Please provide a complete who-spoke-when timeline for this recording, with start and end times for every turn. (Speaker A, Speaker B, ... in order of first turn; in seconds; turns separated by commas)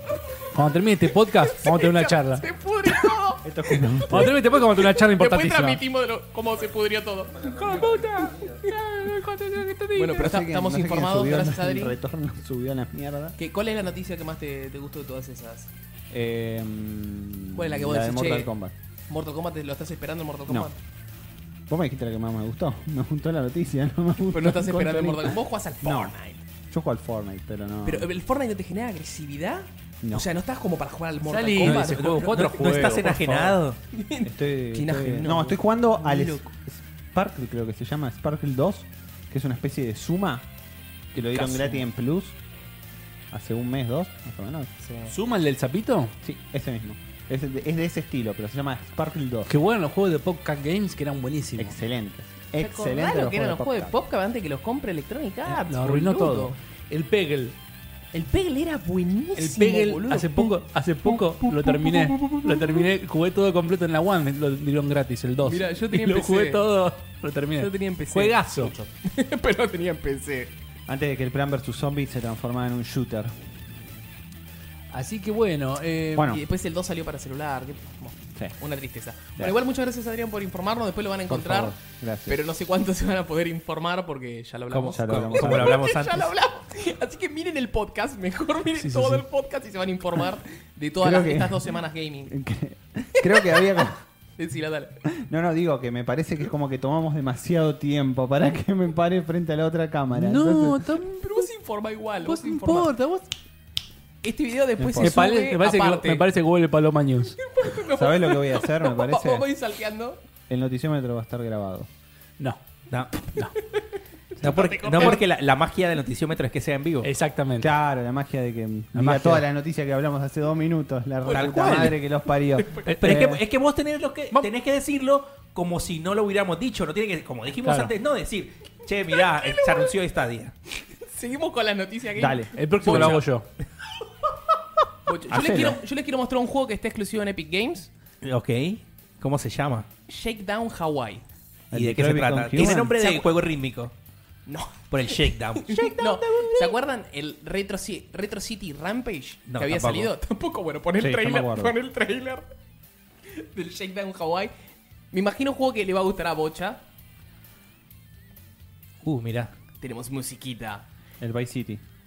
Speaker A: 0.5-2.5, Speaker B: 1.4-8.1, Speaker C: 3.4-4.3, Speaker A: 4.0-5.8, Speaker A: 7.5-10.3, Speaker B: 8.6-8.9, Speaker B: 9.9-11.9, Speaker C: 10.1-13.3, Speaker B: 13.4-15.7, Speaker C: 16.1-18.7, Speaker B: 17.5-18.5, Speaker B: 19.1-20.8, Speaker C: 21.7-26.1, Speaker B: 24.3-26.4, Speaker C: 26.7-28.1, Speaker B: 27.8-32.2, Speaker C: 30.0-30.3, Speaker A: 31.2-33.6, Speaker D: 31.6-33.8, Speaker B: 33.9-36.5, Speaker C: 34.2-40.5, Speaker C: 41.1-42.4, Speaker B: 41.3-41.9, Speaker C: 43.3-44.7, Speaker B: 44.8-45.1, Speaker A: 45.1-46.1, Speaker C: 46.2-49.5, Speaker A: 49.5-51.8, Speaker C: 51.6-54.0, Speaker B: 52.6-56.6, Speaker A: 55.5-57.6, Speaker B: 58.1-62.9, Speaker A: 59.4-68.7, Speaker B: 65.4-66.6, Speaker B: 67.6-70.5, Speaker C: 70.9-73.5, Speaker A: 74.9-76.4, Speaker C: 76.1-76.4, Speaker B: 76.3-81.8, Speaker C: 81.3-82.4, Speaker B: 82.3-92.3, Speaker D: 84.7-86.3, Speaker C: 84.9-85.8, Speaker A: 88.8-89.2, Speaker C: 91.0-94.0, Speaker B: 93.2-93.8, Speaker B: 94.4-95.0, Speaker C: 95.2-100.9, Speaker A: 100.1-101.5, Speaker B: 101.0-102.9, Speaker A: 102.2-103.3, Speaker B: 104.2-106.2, Speaker C: 104.8-105.2, Speaker A: 105.0-107.4, Speaker B: 107.4-110.2, Speaker C: 107.9-109.5, Speaker C: 110.5-111.9, Speaker D: 112.9-113.3, Speaker A: 113.2-113.5, Speaker B: 114.4-115.2, Speaker D: 114.4-117.1, Speaker A: 117.0-117.7, Speaker C: 117.6-123.4, Speaker A: 118.9-119.4, Speaker D: 121.2-122.0, Speaker B: 121.3-121.8, Speaker B: 122.6-122.8, Speaker A: 122.8-123.4, Speaker D: 123.0-130.5, Speaker A: 127.6-127.9, Speaker B: 130.9-133.2, Speaker C: 132.2-132.6, Speaker A: 132.6-133.4, Speaker B: 135.1-137.9, Speaker C: 135.3-135.8, Speaker D: 138.2-139.9, Speaker B: 140.1-141.2, Speaker C: 141.7-142.9, Speaker D: 141.7-143.9, Speaker B: 142.6-143.3, Speaker B: 144.5-152.4, Speaker D: 144.9-146.5, Speaker D: 149.5-150.1, Speaker C: 151.0-151.8, Speaker B: 153.3-154.5, Speaker B: 155.1-156.8, Speaker D: 159.0-159.5, Speaker B: 159.8-160.8, Speaker C: 161.2-161.8